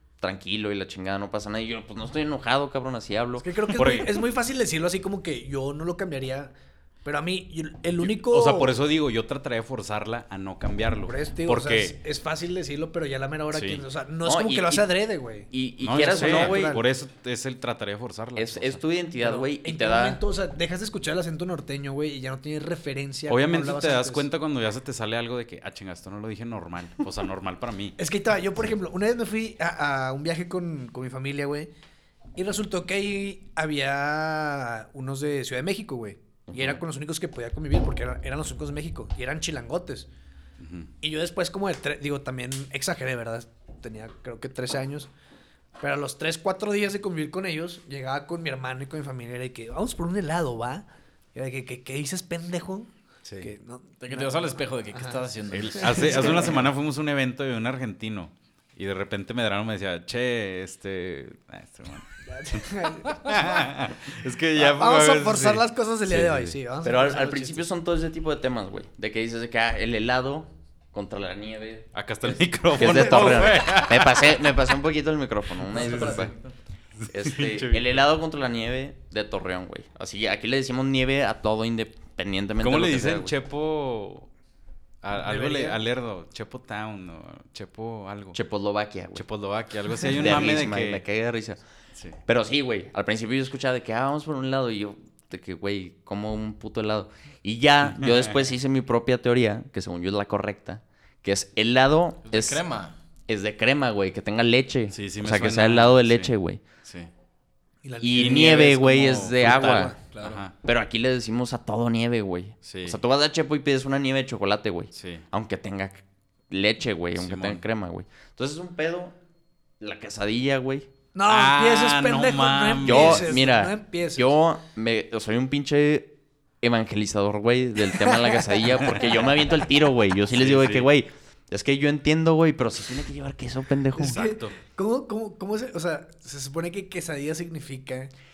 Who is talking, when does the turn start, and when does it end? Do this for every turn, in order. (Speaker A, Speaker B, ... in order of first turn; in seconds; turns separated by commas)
Speaker A: 0.2-3.5, Speaker B: 3.4-6.5, Speaker C: 3.8-4.2, Speaker B: 7.0-8.7, Speaker C: 8.0-12.0, Speaker B: 11.1-16.8, Speaker C: 13.5-13.8, Speaker A: 14.2-14.9, Speaker A: 15.5-16.8, Speaker C: 15.8-18.8, Speaker A: 18.4-20.2, Speaker B: 19.2-24.3, Speaker C: 23.3-28.0, Speaker B: 28.0-31.7, Speaker B: 32.4-40.1, Speaker A: 36.5-36.8, Speaker C: 40.6-40.9, Speaker B: 41.0-45.1, Speaker B: 45.8-52.9, Speaker B: 53.4-55.2, Speaker D: 54.0-56.6, Speaker C: 55.5-66.6, Speaker B: 55.8-56.6, Speaker B: 62.3-63.7, Speaker B: 64.6-67.7, Speaker A: 66.8-71.9, Speaker C: 71.9-74.5, Speaker A: 72.7-76.3, Speaker B: 72.8-73.5, Speaker C: 75.7-76.3, Speaker D: 75.8-76.5, Speaker C: 77.0-77.9, Speaker A: 77.1-83.3, Speaker C: 82.6-84.3, Speaker C: 85.0-88.4, Speaker B: 85.1-85.8, Speaker A: 88.3-89.2, Speaker C: 89.2-91.0, Speaker A: 90.0-91.6, Speaker A: 92.3-102.6, Speaker C: 98.0-98.3, Speaker D: 102.2-103.0, Speaker A: 103.3-106.6, Speaker C: 104.9-106.3, Speaker C: 106.8-107.1, Speaker B: 107.8-108.8, Speaker A: 108.0-110.0, Speaker C: 108.1-110.5, Speaker B: 109.5-110.0, Speaker D: 110.0-110.4, Speaker A: 110.6-119.2, Speaker C: 112.6-113.0, Speaker C: 114.9-115.2, Speaker C: 117.2-117.6, Speaker A: 119.8-120.9, Speaker B: 121.1-124.3, Speaker C: 121.3-123.4, Speaker A: 122.8-134.3, Speaker C: 128.8-129.2, Speaker C: 130.3-130.9, Speaker B: 134.0-138.1, Speaker C: 134.0-134.6